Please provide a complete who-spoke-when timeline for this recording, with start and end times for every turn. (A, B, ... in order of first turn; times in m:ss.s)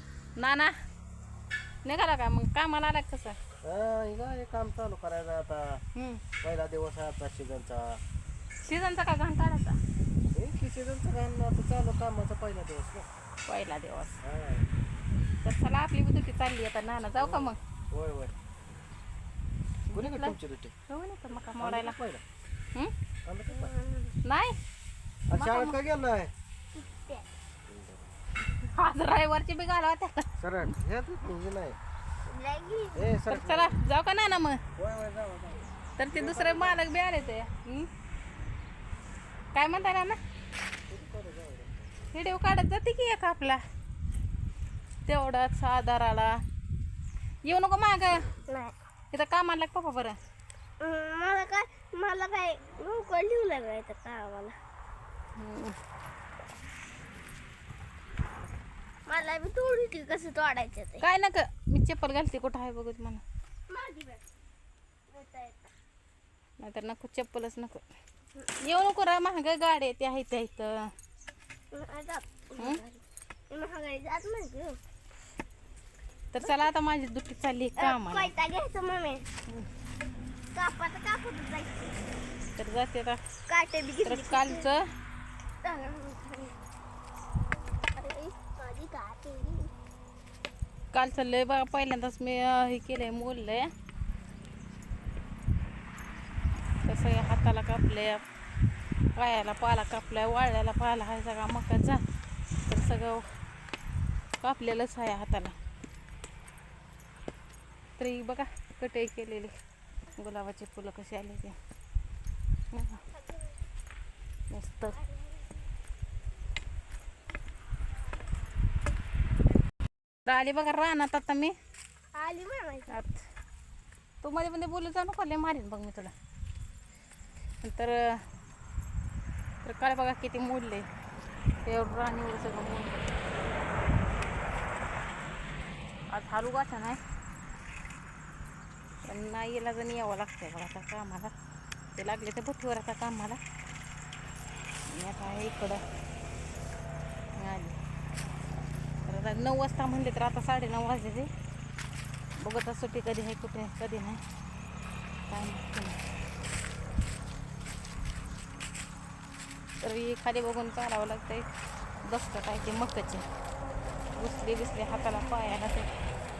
0:00.4-0:00.7 A
0:01.8-0:03.4 A
0:03.6-0:05.8 B
0:06.0-0:06.2 A
0:06.4-0:08.0 B
0:08.6-0:09.8 A
0:10.3-0:13.1 B
0:13.5-0:14.2 A
0:14.2-0:14.7 B
0:15.4-0:17.6 A
0:17.2-0:18.3 B
0:19.9-0:20.4 A
0:19.9-0:20.8 B
0:20.9-0:22.0 A
0:21.6-0:22.2 B
0:23.2-0:23.7 B
0:23.5-0:24.2 C
0:24.2-0:24.6 A
0:25.3-0:26.3 B
0:25.3-0:25.8 A
0:26.8-0:27.3 C
0:27.7-0:28.1 B
0:28.6-0:30.3 A
0:30.4-0:31.8 B
0:32.3-0:33.2 C
0:33.0-0:33.8 B
0:33.3-0:34.6 A
0:34.8-0:36.8 B
0:36.0-0:37.9 A
0:39.5-0:40.2 A
0:40.9-0:41.8 B
0:42.1-0:43.6 A
0:45.1-0:46.4 A
0:47.4-0:48.2 A
0:48.5-0:48.7 C
0:49.1-0:50.2 A
0:50.8-0:54.6 C
0:55.4-0:55.8 A
0:59.1-1:01.0 C
1:01.0-1:03.2 A
1:03.7-1:04.2 C
1:05.1-1:05.7 C
1:06.6-1:07.8 A
1:08.6-1:10.9 A
1:11.7-1:14.8 C
1:16.3-1:18.3 A
1:16.4-1:16.6 C
1:17.8-1:19.3 C
1:20.5-1:22.0 C
1:22.6-1:23.2 A
1:23.5-1:24.7 C
1:24.0-1:24.9 A
1:25.6-1:26.5 C
1:28.0-1:29.7 C
1:30.9-1:33.7 A
1:36.8-1:38.2 A
1:39.2-1:42.0 A
1:42.7-1:43.3 A
1:44.4-1:45.6 A
1:48.0-1:49.5 A
1:50.2-1:51.6 A
1:52.7-1:53.0 A
1:54.5-1:55.0 A
1:54.9-1:55.5 C
2:00.3-2:01.6 A
2:02.1-2:03.0 C
2:02.9-2:03.2 A
2:04.2-2:06.1 A
2:07.6-2:08.2 A
2:09.6-2:10.9 A
2:11.7-2:13.0 A
2:16.1-2:17.0 A
2:19.0-2:21.3 A
2:22.0-2:23.4 A
2:24.9-2:25.8 A
2:27.4-2:27.8 A
2:29.0-2:31.3 A
2:32.4-2:34.2 A
2:35.3-2:36.0 A
2:39.8-2:41.5 A
2:42.0-2:43.2 A
2:44.2-2:45.9 A